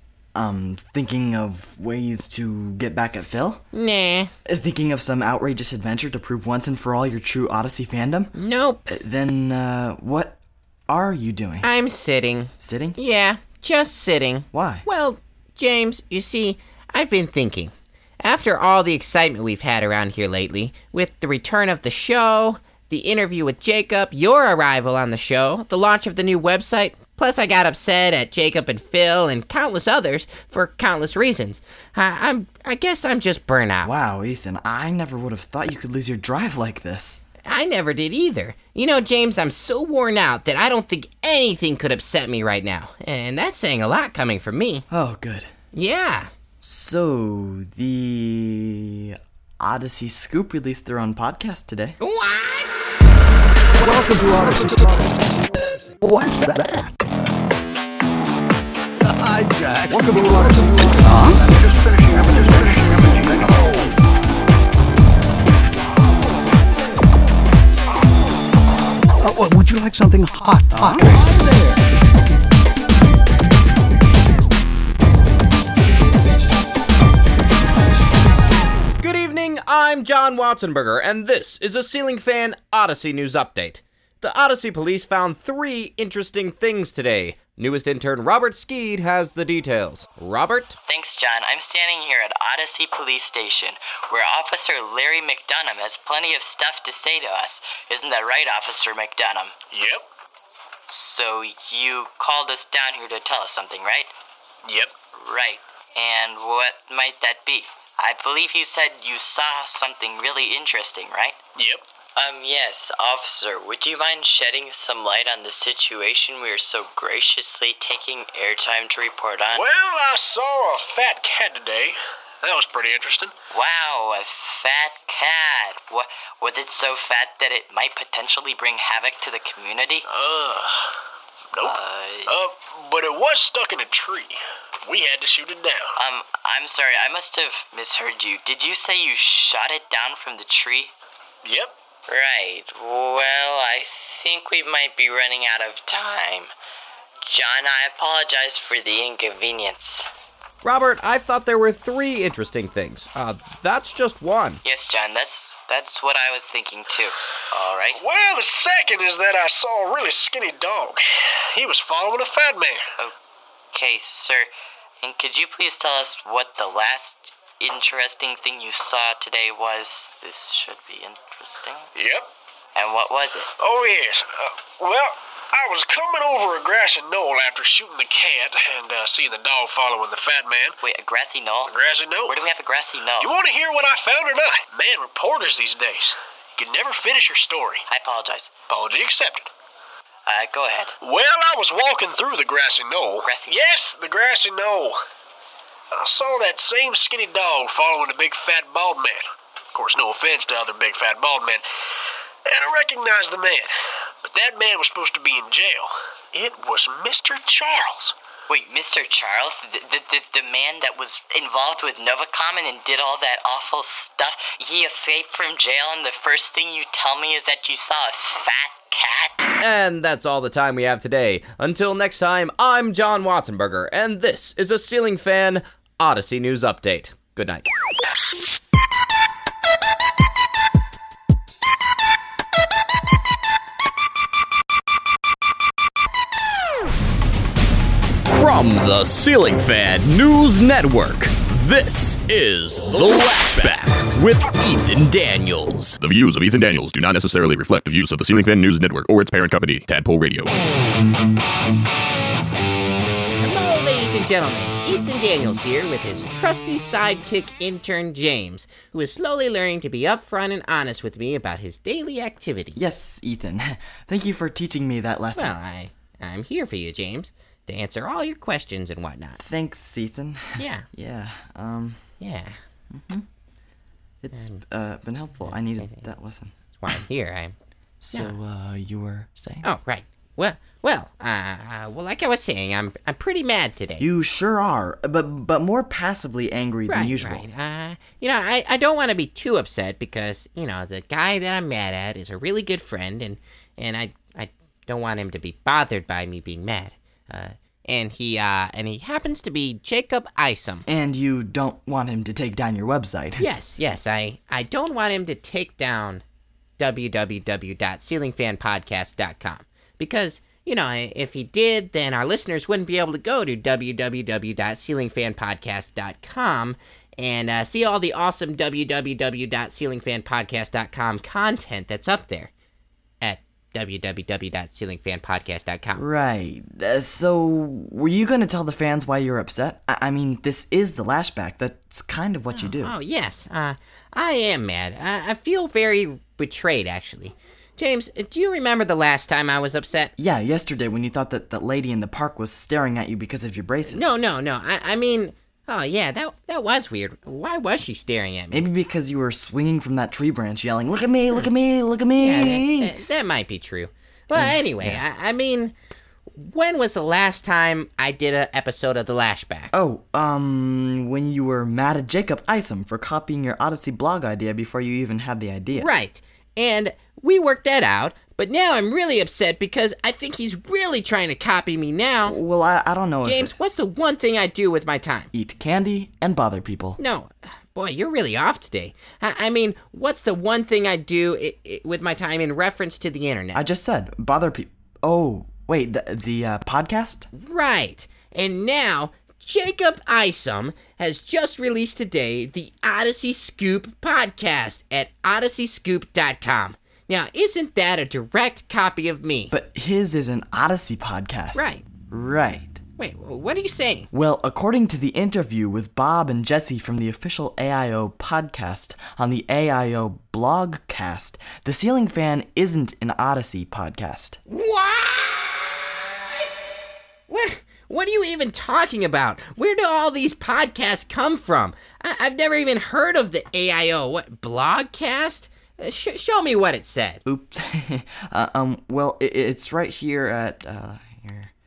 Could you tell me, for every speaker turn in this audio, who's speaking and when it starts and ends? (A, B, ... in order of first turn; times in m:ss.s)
0:00.3-0:03.6 A
0:03.7-0:04.3 B
0:04.4-0:08.3 A
0:08.3-0:08.8 B
0:08.9-0:11.7 A
0:11.6-0:33.9 B
0:12.6-0:13.0 A
0:14.5-0:14.8 A
0:33.8-0:37.2 A
0:37.4-0:44.8 B
0:44.9-0:45.5 A
0:45.7-0:46.3 B
0:46.6-0:52.0 A
0:52.0-0:52.9 B
0:53.8-0:56.9 C
0:59.1-1:01.5 C
1:02.5-1:03.1 C
1:09.2-1:11.3 C
1:19.0-1:30.8 D
1:30.9-1:39.5 E
1:40.9-1:44.1 E
1:45.2-1:51.4 E
1:52.2-1:59.6 E
2:00.5-2:01.9 F
2:02.9-2:03.3 F
2:03.5-2:10.0 E
2:11.6-2:12.3 E
2:16.0-2:20.9 E
2:22.1-2:26.5 E
2:27.3-2:30.1 E
2:30.6-2:34.6 D
2:34.6-2:38.0 E
2:38.6-2:40.9 F
2:41.8-2:42.8 F
2:43.7-2:44.5 E
2:45.0-2:51.9 E
2:52.7-2:53.5 E
2:55.7-3:00.5 F
3:00.8-3:01.7 E
3:02.3-3:03.3 E
3:03.5-3:05.4 F
3:07.2-3:07.6 F
3:07.9-3:08.5 E
3:10.2-3:10.9 E
3:11.4-3:12.4 F
3:13.2-3:13.6 E
3:14.2-3:14.9 F
3:16.2-3:19.1 F
3:20.7-3:21.2 F
3:23.0-3:23.6 F
3:24.4-3:25.9 F
3:26.5-3:28.1 F
3:28.5-3:39.4 E
3:39.6-3:47.7 D
3:58.3-4:06.0 G
4:06.0-4:10.5 H
4:13.4-4:22.8 B
4:22.8-4:25.5 A
4:25.4-4:29.4 B
4:29.4-4:32.0 A
4:30.6-4:30.8 B
4:32.2-4:32.6 B
4:32.9-4:33.2 A
4:34.2-4:36.5 A
4:35.4-4:36.0 B
4:36.8-4:37.5 B
4:38.0-4:39.7 A
4:39.6-4:44.0 B
4:44.0-4:47.4 A
4:46.9-5:00.8 B
5:00.9-5:03.5 A
5:03.4-5:06.2 B
5:06.8-5:22.5 B
5:23.2-5:26.0 B
5:25.9-5:32.9 A
5:32.6-5:40.1 B
5:40.2-5:44.1 A
5:43.9-5:48.6 B
5:48.5-5:53.0 A
5:52.2-5:55.7 B
5:54.3-5:55.0 A
5:56.3-5:59.7 B
5:59.7-6:05.9 A
6:05.8-6:12.4 B
6:12.2-6:13.5 A
6:13.2-6:15.3 B
6:15.3-6:17.0 A
6:17.0-6:23.6 B
6:23.5-6:27.3 A
6:27.3-6:39.5 B
6:39.5-6:42.8 A
6:41.5-6:41.8 B
6:43.0-6:44.1 B
6:44.1-6:54.4 A
6:54.5-6:56.7 B
6:57.3-7:07.2 B
7:07.2-7:11.5 A